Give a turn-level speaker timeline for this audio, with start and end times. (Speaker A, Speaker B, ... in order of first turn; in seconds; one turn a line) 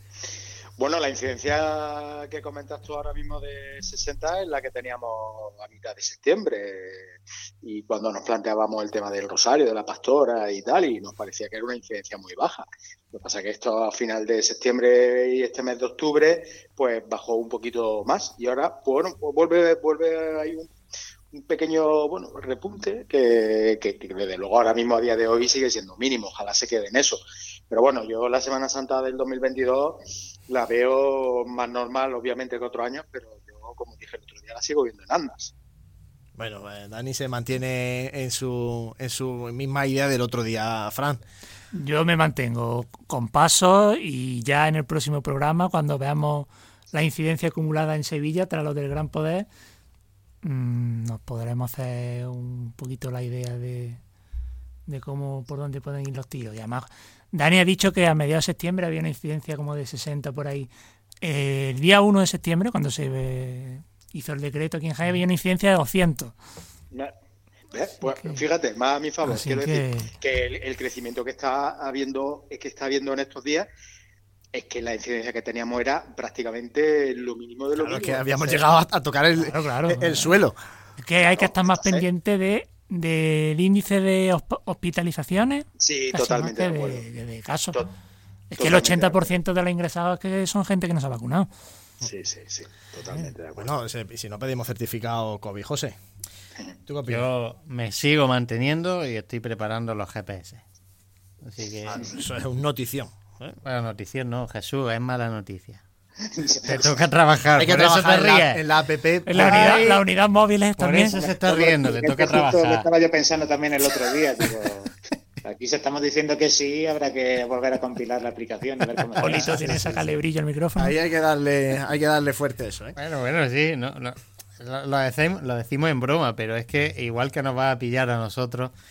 Speaker A: 0.8-20.7
Speaker A: 21.3-35.5
Speaker B: 36.4-41.2
Speaker C: 41.8-49.5
Speaker C: 50.4-54.0
Speaker C: 54.9-60.7
Speaker C: 61.2-66.3
Speaker A: 67.7-73.7
Speaker C: 68.1-68.4
Speaker C: 69.2-70.1
Speaker A: 74.5-78.6
Speaker B: 77.8-80.6
Speaker C: 79.4-80.3
Speaker C: 81.0-87.8
Speaker A: 81.2-82.0
Speaker A: 85.8-87.0
Speaker C: 88.5-91.5
Speaker A: 88.6-89.2
Speaker A: 92.0-93.7
Speaker B: 93.6-96.0
Speaker B: 96.9-97.3
Speaker D: 97.1-100.6
Speaker D: 101.4-102.1
Speaker B: 101.8-103.6
Speaker D: 103.6-105.8
Speaker D: 106.7-108.6
Speaker B: 107.6-110.0
Speaker C: 109.3-111.3
Speaker D: 109.4-109.9
Speaker D: 110.8-112.9
Speaker E: 111.1-114.9
Speaker E: 115.4-119.7
Speaker C: 119.2-121.0
Speaker B: 120.8-123.0
Speaker D: 123.0-128.7